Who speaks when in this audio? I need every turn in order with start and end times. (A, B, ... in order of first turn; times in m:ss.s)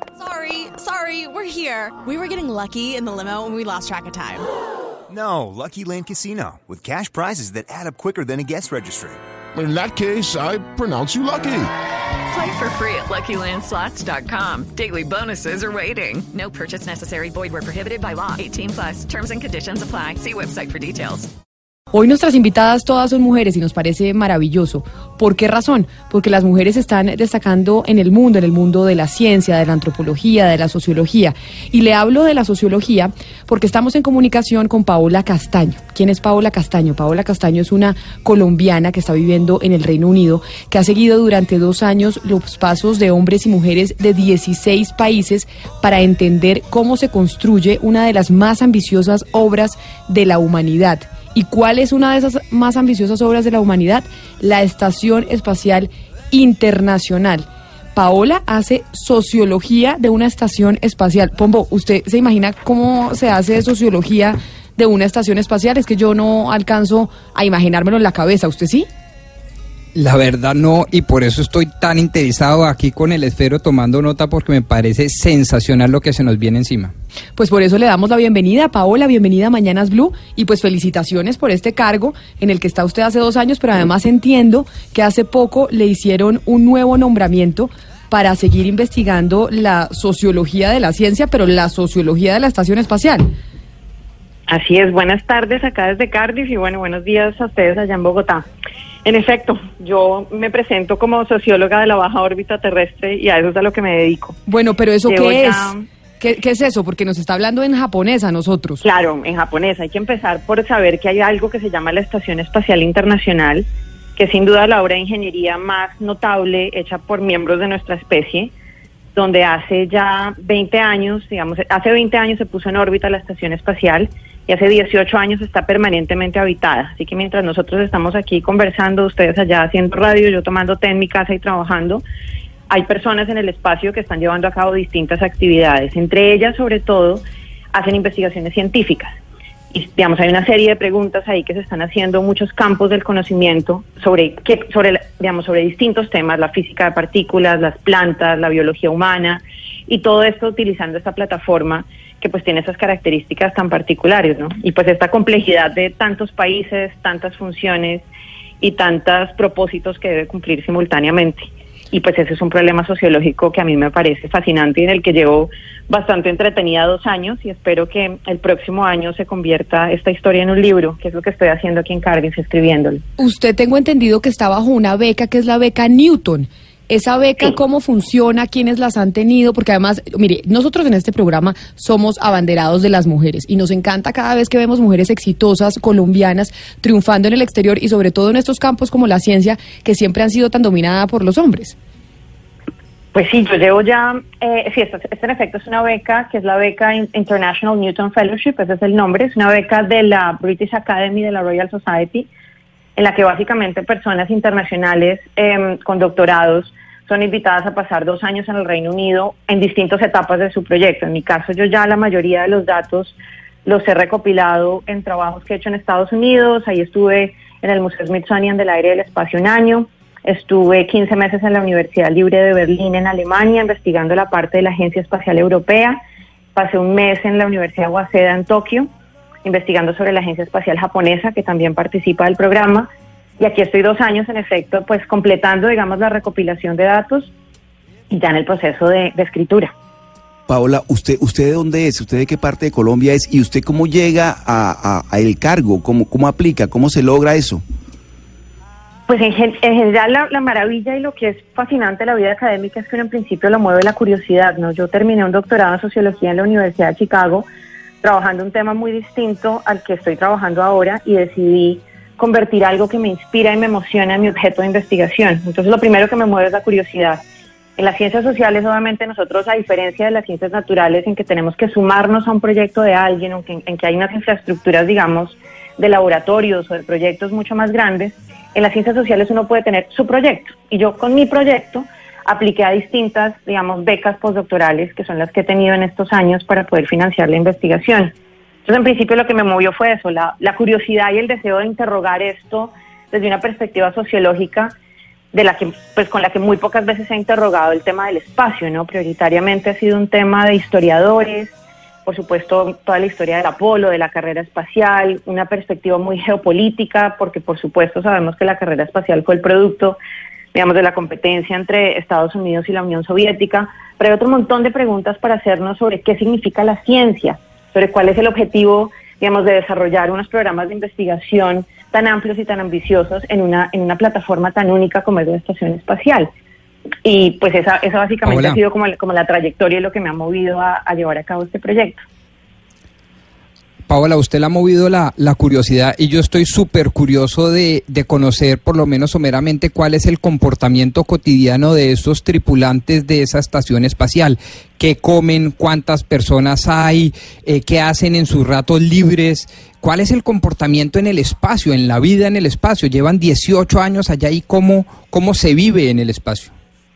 0:00.2-0:04.4 A
0:05.1-0:09.2 B
0:09.5-0:11.7 C
0:12.3-0:21.3 D
0:21.9-1:08.9 E
1:09.9-1:16.9 F
1:17.4-1:33.3 E
1:34.5-1:38.4 G
1:39.0-1:44.4 G
1:44.5-1:48.8 E
1:45.0-1:45.8 G
1:48.8-1:58.5 G
1:59.1-2:12.0 G
2:12.7-2:19.2 G
2:19.7-2:38.0 G
2:38.6-2:53.0 G
2:53.2-3:11.8 E
3:13.1-3:22.3 G
3:23.0-3:46.0 G
3:46.5-3:48.9 G
3:49.4-3:52.9 G
3:53.4-3:57.3 G
3:58.1-3:59.7 G
4:00.5-4:07.6 H
4:09.1-4:17.5 G
4:18.0-4:27.2 G
4:27.8-4:48.1 G
4:48.6-4:54.7 G
4:55.3-5:01.5 G
5:02.0-5:10.0 G
5:10.5-5:26.3 G
5:27.0-5:32.0 G
5:28.2-5:28.6 F
5:33.9-5:56.5 F